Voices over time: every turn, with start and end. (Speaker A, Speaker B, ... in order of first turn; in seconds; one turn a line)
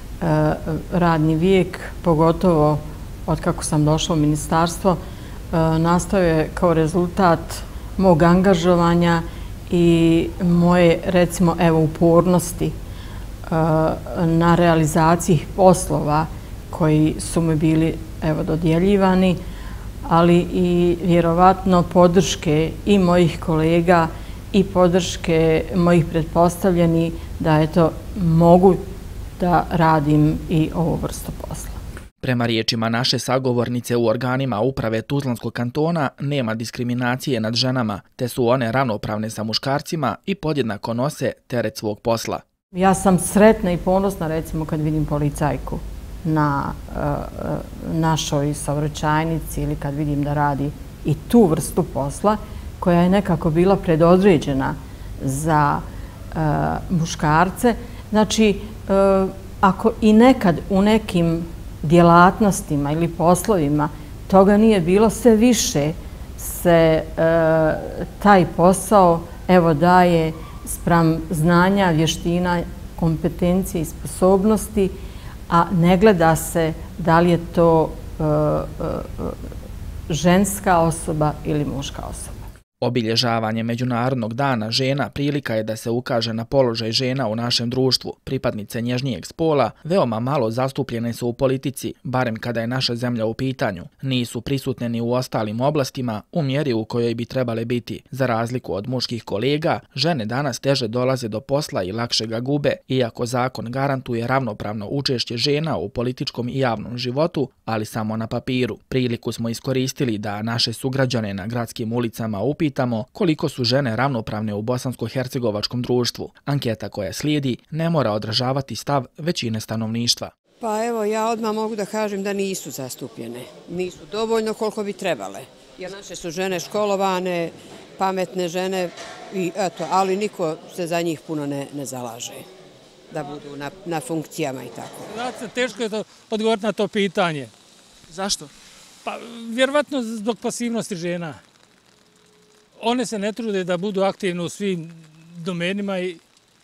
Speaker A: 0.2-5.0
Speaker A: 5.5-12.7
Speaker A: 13.5-19.4
Speaker A: 20.1-28.8
Speaker A: 29.4-31.8
Speaker B: 32.2-42.4
Speaker A: 42.7-74.9
Speaker A: 75.5-79.4
Speaker A: 80.1-82.4
Speaker B: 82.8-120.3
Speaker C: 120.6-132.5
Speaker C: 133.1-135.1
Speaker D: 135.2-137.5
Speaker D: 139.1-141.4
Speaker D: 142.8-146.2